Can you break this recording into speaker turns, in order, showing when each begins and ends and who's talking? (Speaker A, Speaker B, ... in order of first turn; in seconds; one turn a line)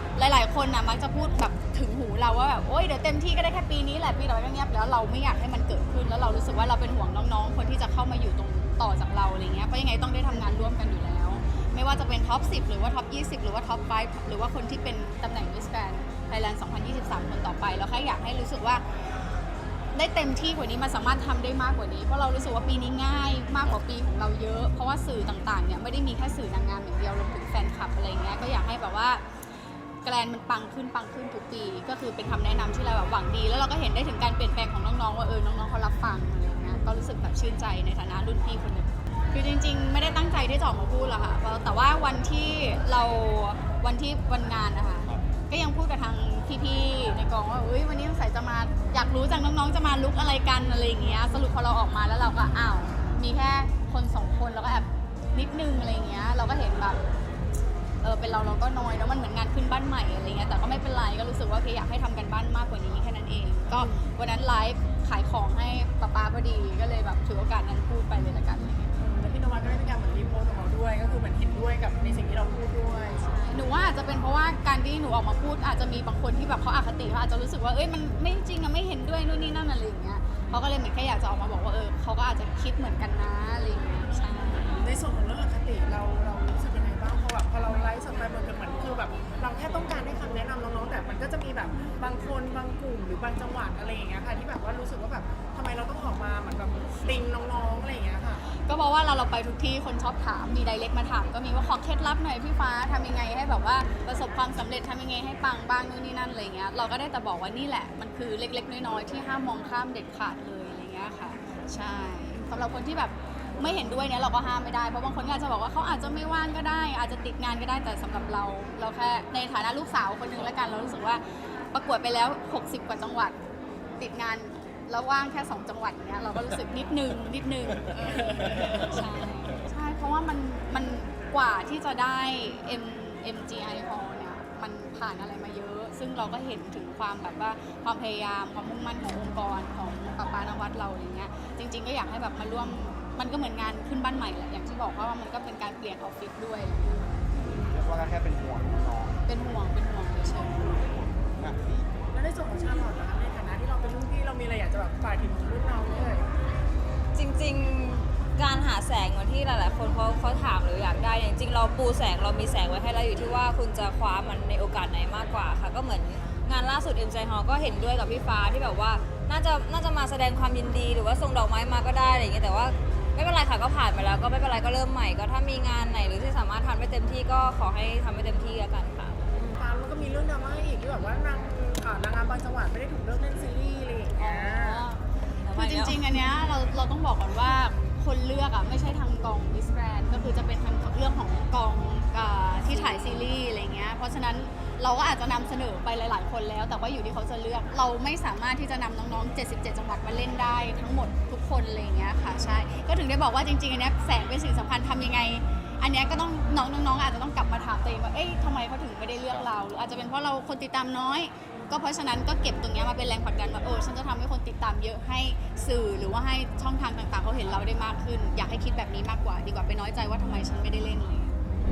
Speaker A: 0.2-18.8
Speaker A: 19.9-29.2
Speaker A: 30.0-57.0
Speaker A: 58.0-68.9
Speaker B: 69.0-73.4
Speaker A: 73.4-84.7
Speaker B: 84.6-98.4
Speaker A: 98.7-123.3
Speaker A: 124.0-147.6
Speaker C: 128.0-129.5
Speaker B: 128.0-128.8
Speaker C: 147.3-149.2
Speaker A: 149.3-150.7
Speaker C: 150.3-151.9
Speaker B: 152.1-156.3
Speaker D: 157.1-179.2
Speaker B: 179.3-184.8
Speaker A: 184.2-185.0
Speaker D: 185.4-186.0
Speaker A: 185.5-221.4
Speaker D: 192.6-193.3